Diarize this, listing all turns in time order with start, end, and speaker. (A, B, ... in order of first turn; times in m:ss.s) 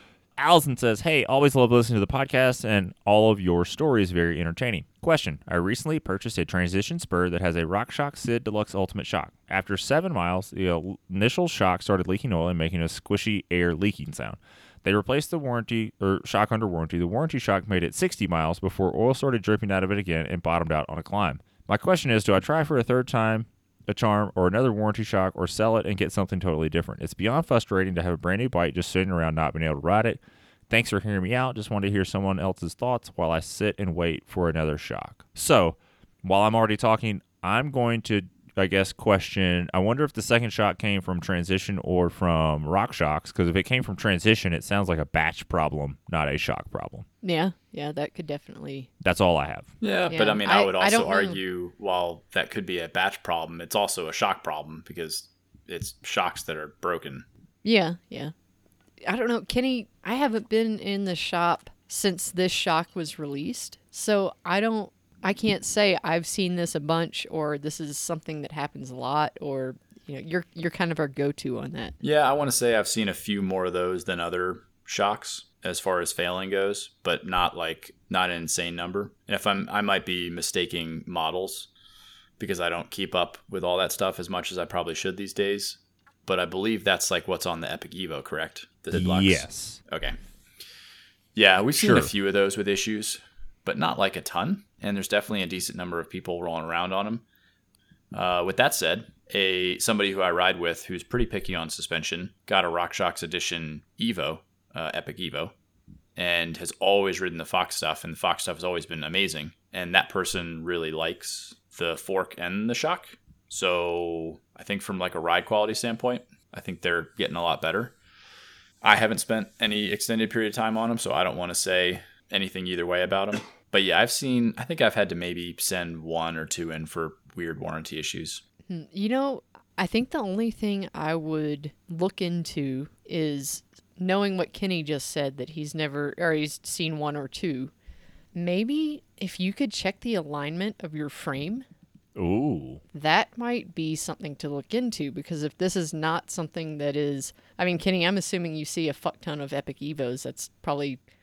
0:00.4-0:47.1 A
0:47.2-0:48.9 B
0:49.0-0:49.7 A
0:49.8-0:57.2 C
0:50.1-0:51.4 B
0:57.6-0:58.3 B
0:59.0-1:12.0 B
1:12.0-1:21.7 C
1:22.4-1:30.2 C
1:28.9-1:29.8 A
1:31.4-1:37.2 C
1:31.8-1:32.1 A
1:38.1-1:45.5 C
1:46.2-1:58.0 C
1:58.8-2:08.4 C
2:08.7-2:17.7 B
2:18.3-2:21.6 B
2:22.2-2:22.8 A
2:22.9-2:31.0 B